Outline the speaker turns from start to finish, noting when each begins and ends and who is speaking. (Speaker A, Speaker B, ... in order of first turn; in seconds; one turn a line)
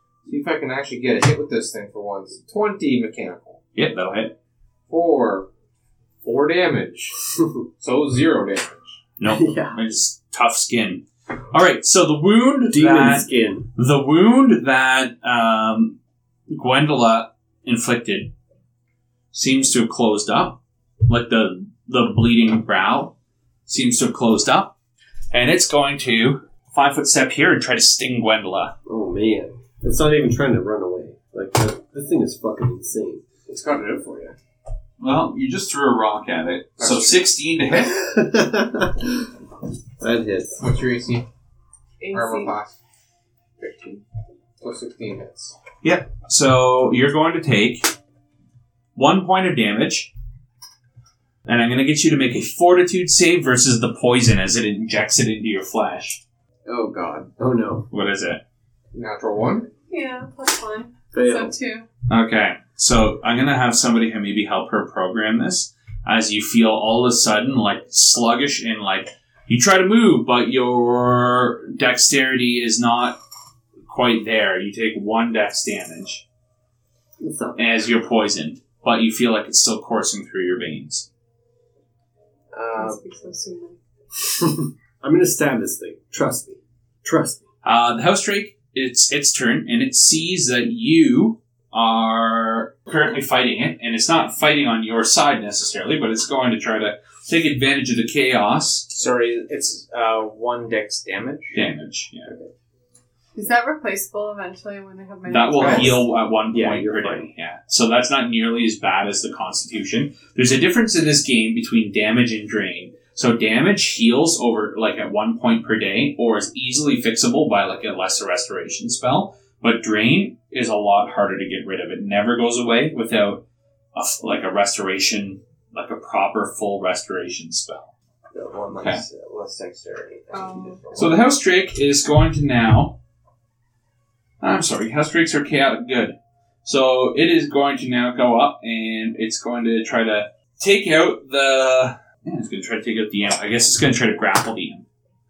Speaker A: 0.2-3.6
Speaker B: 3.7-4.3
Speaker A: 4.9-5.5
Speaker A: 6.2-7.2
Speaker A: 7.8-8.9
Speaker B: 9.2-15.9
Speaker C: 9.2-9.8
Speaker C: 12.7-13.7
Speaker B: 16.5-18.3
Speaker B: 19.3-23.1
Speaker B: 23.7-24.7
Speaker B: 25.3-28.7
Speaker C: 28.9-33.2
Speaker A: 33.5-34.3
Speaker B: 35.0-38.0
Speaker A: 36.8-37.2
Speaker C: 37.7-39.3
Speaker C: 40.0-40.6
Speaker A: 40.6-41.2
Speaker D: 42.0-42.5
Speaker A: 42.1-42.8
Speaker D: 43.6-44.0
Speaker A: 44.6-45.5
Speaker B: 45.8-47.9
Speaker B: 48.9-50.1
Speaker B: 51.4-56.2
Speaker E: 56.6-57.3
Speaker C: 57.4-57.9
Speaker B: 57.9-58.4
Speaker A: 58.9-59.7
Speaker D: 59.9-61.9
Speaker C: 61.1-61.5
Speaker B: 62.1-73.2
Speaker B: 73.9-76.2
Speaker C: 77.2-77.9
Speaker B: 77.5-81.0
Speaker E: 82.5-83.0
Speaker D: 82.7-83.8
Speaker C: 84.2-87.4
Speaker B: 87.6-98.9
Speaker E: 98.9-101.6
Speaker B: 101.5-102.3
Speaker E: 102.2-102.5
Speaker D: 103.3-106.0
Speaker B: 105.2-123.4
Speaker E: 105.6-105.9
Speaker C: 106.5-106.9
Speaker E: 106.5-107.2
Speaker B: 123.9-127.9
Speaker E: 128.3-131.2
Speaker B: 128.7-129.0
Speaker D: 130.3-130.8
Speaker B: 130.9-132.9
Speaker B: 134.4-144.8